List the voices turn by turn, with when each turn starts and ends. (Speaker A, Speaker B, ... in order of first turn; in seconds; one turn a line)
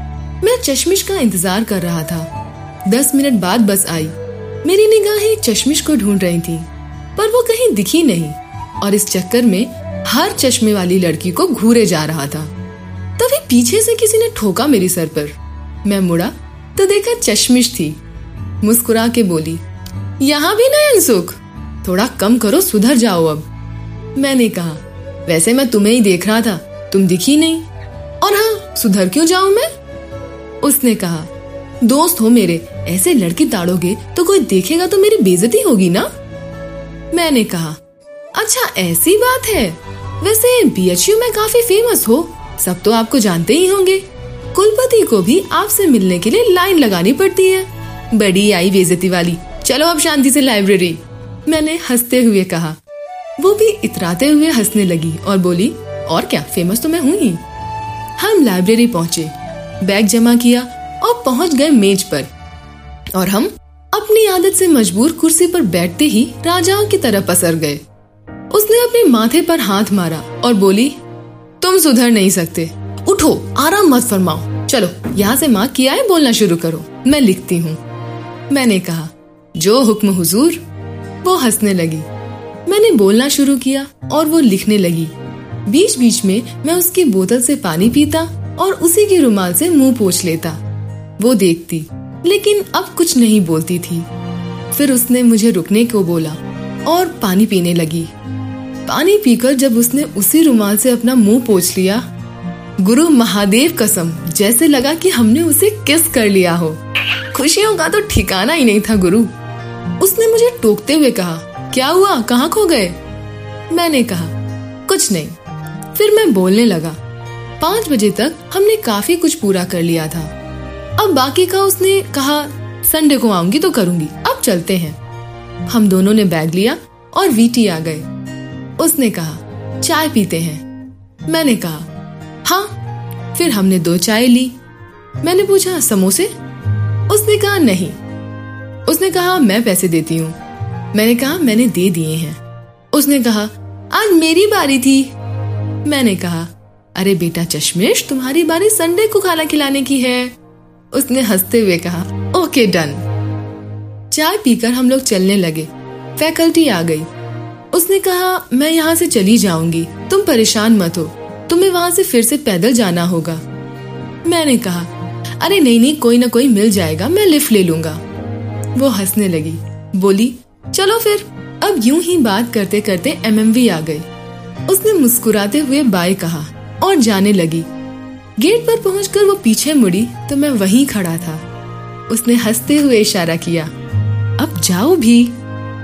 Speaker A: 0.4-2.3
Speaker A: 2.9-12.5
Speaker A: 13.2-18.0
Speaker A: 18.6-19.6
Speaker A: 20.2-23.5
Speaker A: 24.1-27.6
Speaker A: 28.2-29.7
Speaker A: 30.6-31.3
Speaker A: 31.8-36.1
Speaker A: 37.1-37.8
Speaker A: 38.3-52.8
Speaker A: 53.4-57.4
Speaker A: 58.2-62.3
Speaker A: 63.1-67.8
Speaker A: 68.5-71.0
Speaker A: 71.6-77.8
Speaker A: 78.5-80.6
Speaker A: 81.2-82.0
Speaker A: 82.7-85.1
Speaker A: 85.7-90.6
Speaker A: 91.2-94.1
Speaker A: 94.7-98.1
Speaker A: 98.8-102.0
Speaker A: 102.8-109.3
Speaker A: 110.0-113.0
Speaker A: 113.7-115.4
Speaker A: 115.9-117.0
Speaker A: 117.6-120.3
Speaker A: 121.0-125.0
Speaker A: 125.7-128.1
Speaker A: 128.8-130.6
Speaker A: 131.3-131.9
Speaker A: 132.4-132.8
Speaker A: 133.3-134.6
Speaker A: 135.2-136.3
Speaker A: 137.1-138.0
Speaker A: 138.9-140.3
Speaker A: 140.9-142.4
Speaker A: 142.9-145.1
Speaker A: 145.8-150.3
Speaker A: 150.9-153.0
Speaker A: 154.1-157.1
Speaker A: 157.7-163.4
Speaker A: 164.2-168.0
Speaker A: 168.8-174.1
Speaker A: 174.7-177.7
Speaker A: 178.4-181.4
Speaker A: 182.1-183.7
Speaker A: 184.4-185.4